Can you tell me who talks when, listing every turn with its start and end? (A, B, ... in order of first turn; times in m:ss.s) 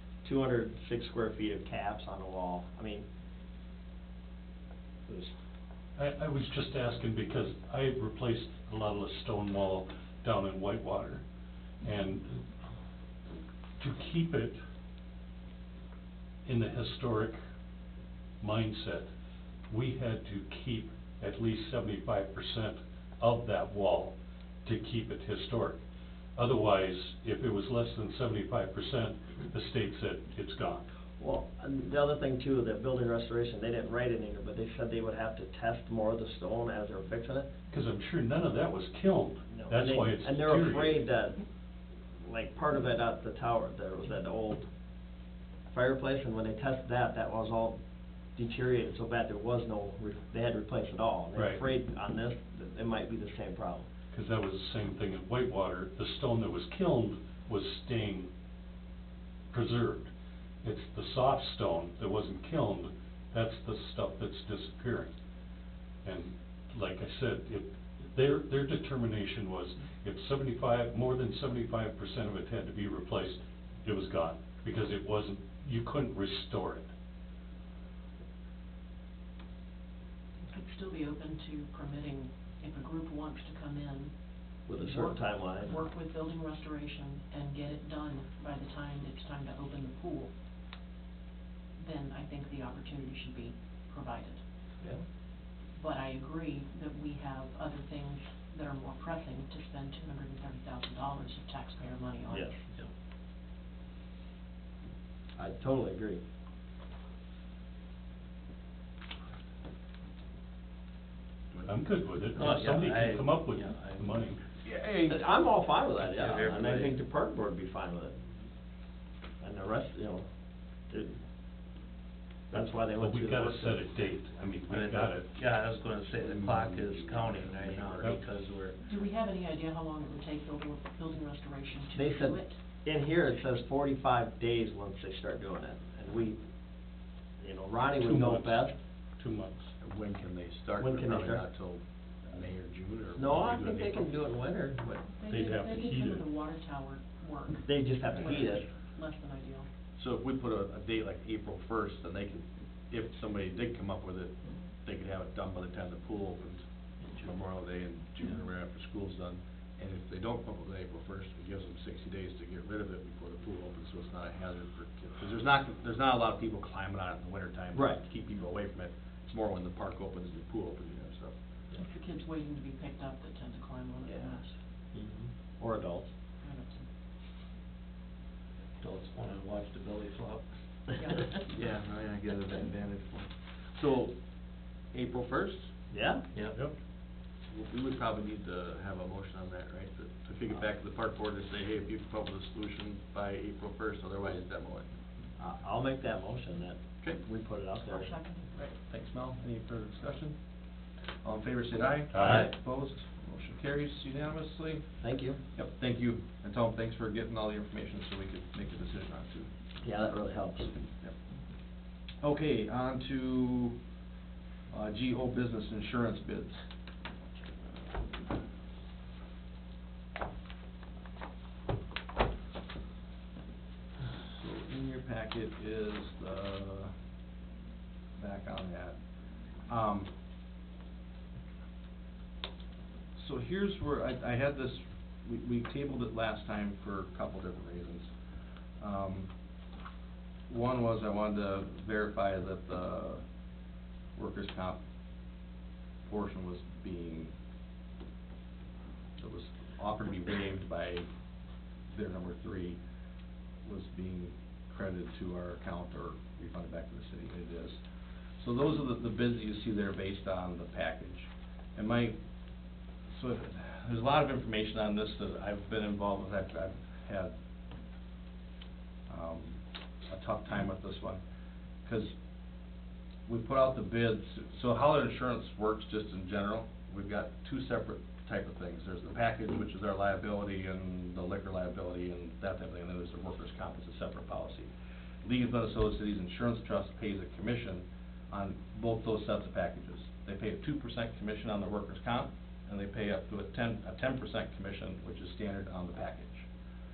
0:00.2-0:03.1 A
0:05.1-0:05.3 A
0:06.0-0:11.2 B
0:11.8-0:12.4 B
0:13.8-0:14.6 B
0:16.5-0:17.4 B
0:18.4-0:19.1 B
0:19.7-0:25.8 B
0:26.4-0:30.9 B
0:31.2-0:37.5 A
0:37.7-0:41.0 B
0:39.5-0:41.4 A
0:42.2-0:44.6 A
0:45.7-0:47.8 A
0:48.4-0:53.9 A
0:51.4-0:51.6 B
0:54.1-0:58.3 B
0:59.5-1:00.1 B
1:00.6-1:05.1 B
1:06.0-1:16.9 B
1:20.4-1:30.3 C
1:24.7-1:25.8 A
1:31.8-1:34.4 C
1:35.7-1:42.6 C
1:45.4-1:46.2 A
1:51.6-1:54.4 B
1:52.3-1:54.2 D
1:54.6-1:55.2 E
1:55.1-1:58.2 A
1:56.0-1:57.0 D
1:59.4-2:00.3 A
2:00.9-2:01.2 A
2:02.5-2:03.8 A
2:02.5-2:05.3 B
2:04.7-2:08.8 D
2:06.2-2:08.2 E
2:08.8-2:12.6 C
2:11.9-2:16.4 A
2:17.4-2:18.8 A
2:18.0-2:19.7 B
2:19.8-2:24.1 E
2:20.8-2:21.5 A
2:23.2-2:25.1 A
2:25.1-2:29.7 C
2:25.3-2:26.2 B
2:27.7-2:28.7 A
2:30.0-2:51.3 E
2:47.7-2:48.0 A
2:51.8-2:54.6 C
2:54.1-2:54.3 A
2:54.9-2:55.3 D
2:55.6-2:56.1 A
2:56.4-2:56.9 C
2:58.8-3:00.5 D
3:01.0-3:01.4 C
3:01.5-3:04.2 E
3:04.9-3:05.7 E
3:05.9-3:06.2 A
3:07.5-3:14.9 E
3:15.4-3:18.1 A
3:17.8-3:18.8 C
3:18.9-3:20.4 E
3:21.2-3:24.9 E
3:22.1-3:22.5 B
3:22.2-3:22.5 D
3:25.0-3:25.4 A
3:25.5-3:29.5 E
3:29.8-3:30.7 A
3:32.2-3:33.8 E
3:34.7-3:36.6 E
3:44.2-3:46.9 E
3:48.2-3:49.0 E
3:49.7-3:50.1 E
3:53.2-3:58.1 E
3:58.8-3:59.3 E
4:00.5-4:03.2 E
4:04.2-4:04.8 E
4:06.0-4:07.3 E
4:09.2-4:11.1 E
4:11.9-4:12.8 E
4:13.6-4:17.8 E
4:18.4-4:22.2 E
4:23.1-4:27.3 E
4:29.1-4:31.2 E
4:31.8-4:32.1 E
4:33.3-4:44.7 E
4:45.2-4:56.5 E